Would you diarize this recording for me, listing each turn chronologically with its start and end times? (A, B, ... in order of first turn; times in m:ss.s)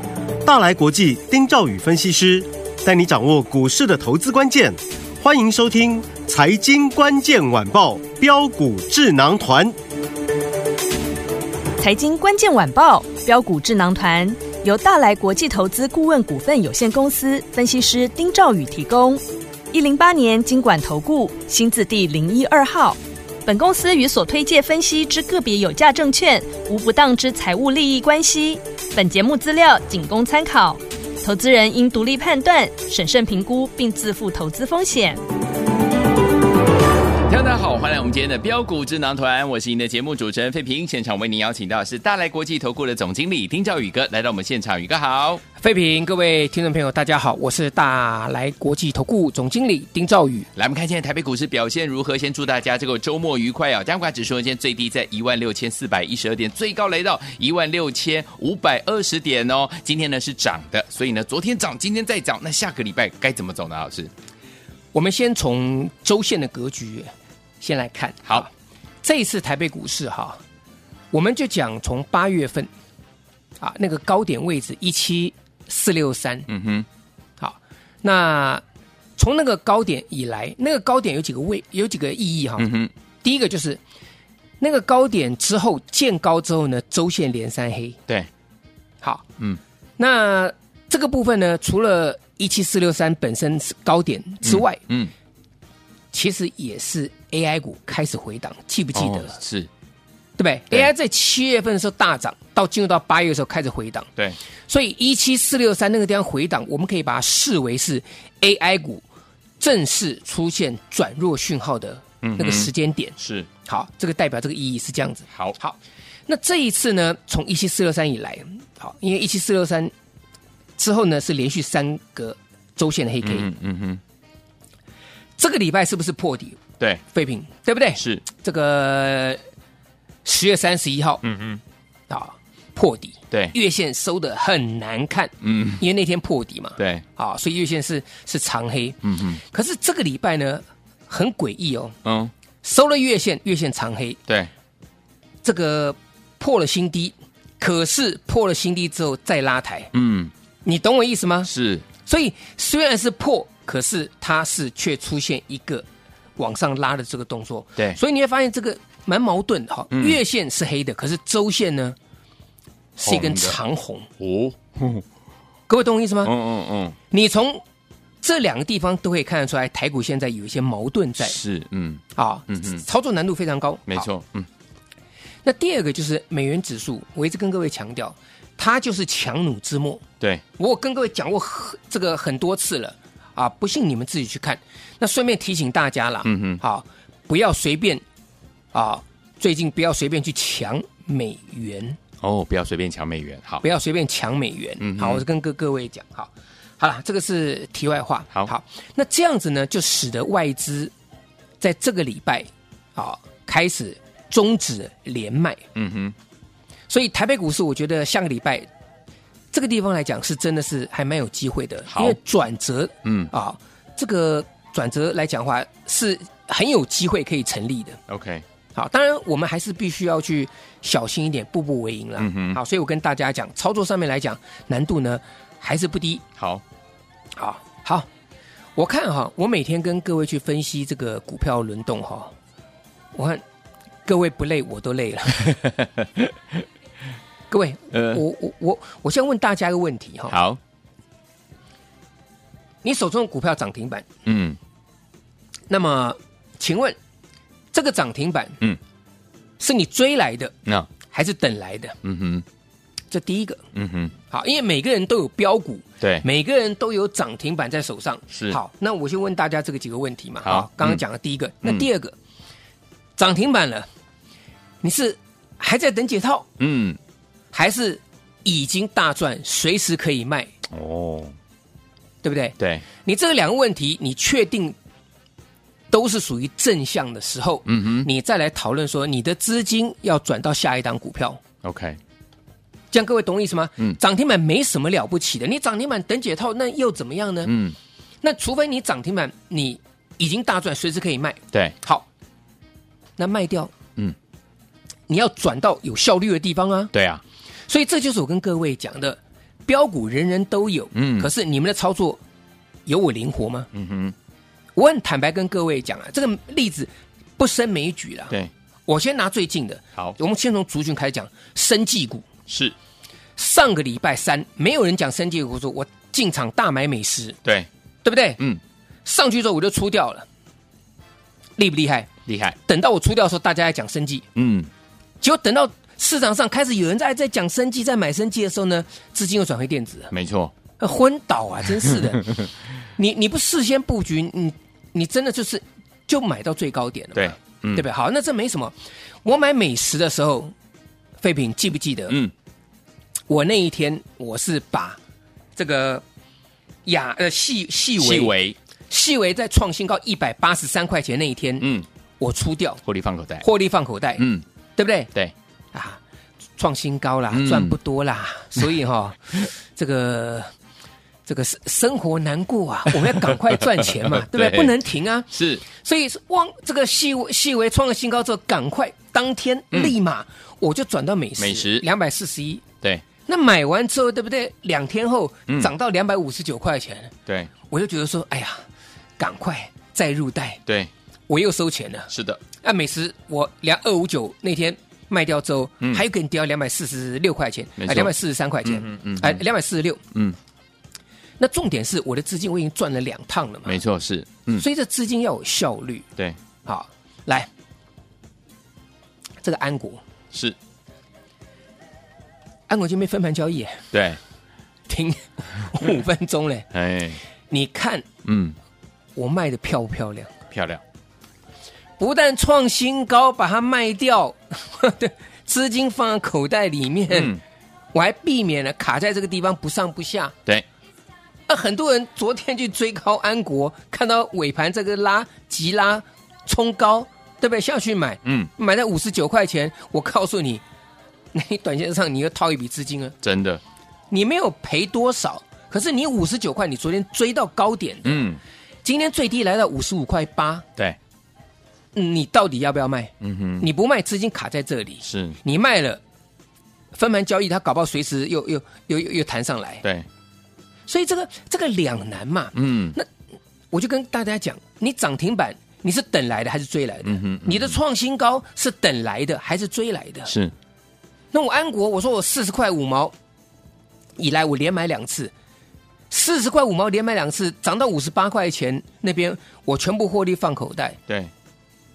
0:00.4-0:09.8 A
0:11.8-0:35.2 B
0:37.3-0:45.4 C
0:45.6-0:50.5 D
0:50.5-1:04.1 C
1:04.9-1:08.5 D
1:09.0-1:10.4 D
1:11.1-1:12.7 D
1:13.6-1:16.5 D
1:16.5-1:16.8 C
1:17.4-1:18.6 D
1:19.2-1:22.7 D
1:22.6-1:22.9 C
1:23.2-1:23.8 D
1:24.6-1:28.0 D
1:30.0-1:34.8 D
1:34.4-1:35.1 C
1:36.1-1:39.4 D
1:38.9-1:39.7 C
1:40.4-1:44.1 D
1:44.7-1:49.0 D
1:49.6-1:59.9 D
1:52.2-1:53.5 C
2:00.8-2:03.5 D
2:03.2-2:04.0 C
2:05.4-2:09.4 D
2:08.0-2:08.2 C
2:10.2-2:11.2 D
2:11.2-2:11.6 C
2:12.1-2:22.0 D
2:15.4-2:15.8 C
2:16.8-2:17.0 C
2:19.0-2:19.4 C
2:22.0-2:22.3 C
2:22.6-2:24.2 D
2:25.4-2:29.9 D
2:29.9-2:30.3 C
2:30.6-2:31.5 D
2:31.5-2:31.8 C
2:32.0-2:35.8 D
2:36.4-2:42.0 D
2:39.9-2:40.2 C
2:43.0-2:44.1 D
2:43.0-2:43.6 C
2:44.2-2:45.0 C
2:45.7-2:46.3 D
2:46.2-2:47.0 C
2:47.1-2:47.6 D
2:48.2-2:51.4 D
2:51.2-2:52.8 C
2:52.1-2:54.1 D
2:53.9-2:54.5 C
2:55.4-3:00.0 D
3:00.6-3:08.0 D
3:06.2-3:06.6 C
3:08.7-3:12.0 D
3:12.2-3:13.6 C
3:13.6-3:20.9 D
3:14.8-3:15.2 C
3:21.6-3:25.6 D
3:25.7-3:26.1 C
3:26.9-3:28.7 D
3:29.5-3:38.0 D
3:31.9-3:32.2 C
3:33.0-3:33.3 C
3:38.1-3:38.4 C
3:38.7-3:46.2 D
3:42.2-3:42.6 C
3:46.4-3:46.6 C
3:47.4-3:48.1 D
3:48.8-3:52.3 D
3:53.1-3:53.4 D
3:54.0-3:55.6 D
3:55.6-3:56.6 C
3:57.5-4:00.4 D
3:57.9-3:58.2 C
4:00.3-4:00.6 C
4:02.8-4:04.1 D
4:04.2-4:04.6 C
4:05.7-4:07.0 D
4:07.7-4:08.6 D
4:09.6-4:12.0 D
4:12.0-4:12.4 C
4:13.1-4:13.6 D
4:13.7-4:14.1 C
4:14.3-4:22.1 D
4:20.4-4:21.0 C
4:23.2-4:23.9 D
4:24.8-4:26.5 D
4:26.6-4:27.0 C
4:27.5-4:30.5 D
4:30.7-4:31.3 C
4:32.2-4:34.8 D
4:32.6-4:32.8 C
4:35.9-4:41.4 D
4:37.7-4:38.1 C
4:41.6-4:42.0 C
4:42.9-4:47.5 D
4:47.4-4:47.8 C
4:48.2-4:52.1 D
4:53.2-4:53.7 D
4:55.1-4:56.9 D
4:56.9-4:57.2 C
4:57.7-5:02.2 D
5:00.9-5:01.3 C
5:02.8-5:03.7 D
5:03.7-5:04.1 C
5:04.8-5:08.4 D
5:08.9-5:12.2 D
5:12.5-5:12.7 C
5:13.4-5:17.4 D
5:18.0-5:18.4 D
5:19.0-5:20.3 D
5:21.6-5:22.1 D
5:22.2-5:22.6 C
5:22.7-5:24.3 D
5:24.3-5:24.7 C
5:25.2-5:30.1 D
5:30.1-5:30.5 C
5:30.8-5:32.4 D
5:33.0-5:38.7 D
5:37.2-5:37.8 C
5:39.2-5:40.5 D
5:41.2-5:42.2 D
5:43.3-5:45.0 D
5:45.6-5:46.0 D
5:46.8-5:48.3 D
5:48.0-5:48.6 C
5:48.9-5:52.8 D
5:51.6-5:51.8 C
5:52.8-5:53.4 C
5:53.4-5:55.1 D
5:54.2-5:54.4 C
5:55.7-5:56.0 D
5:56.6-6:00.5 D
5:57.3-5:57.8 C
6:01.2-6:12.6 D
6:04.0-6:04.7 C
6:05.3-6:05.6 C
6:11.4-6:11.8 C
6:13.2-6:18.6 D
6:17.2-6:17.5 C
6:19.2-6:20.6 D
6:21.3-6:22.1 D
6:22.1-6:22.4 C
6:22.6-6:30.0 D
6:27.8-6:28.1 C
6:28.6-6:29.4 C
6:31.4-6:33.8 D
6:33.6-6:34.6 C
6:34.6-6:36.1 D
6:36.6-6:37.5 D
6:39.4-6:40.0 D
6:42.7-6:43.8 D
6:43.9-6:44.2 C
6:44.9-6:46.7 D
6:46.7-6:47.2 C
6:47.5-6:48.0 D
6:48.2-6:48.6 C
6:49.2-6:50.3 D
6:50.5-6:50.8 C
6:52.0-6:57.3 D
6:57.1-6:57.4 C
6:57.9-7:00.3 D
7:01.5-7:10.6 D
7:08.2-7:08.5 C
7:11.3-7:13.2 D
7:13.2-7:13.6 C
7:14.1-7:18.3 D
7:18.0-7:18.4 C
7:18.8-7:20.7 D
7:21.9-7:26.0 D
7:23.2-7:23.7 C
7:25.0-7:25.4 C
7:26.9-7:29.8 D
7:30.9-7:33.1 D
7:32.5-7:33.0 C
7:33.7-7:40.3 D
7:37.0-7:37.7 C
7:41.3-7:43.1 D
7:44.2-7:45.3 D
7:46.1-7:51.0 D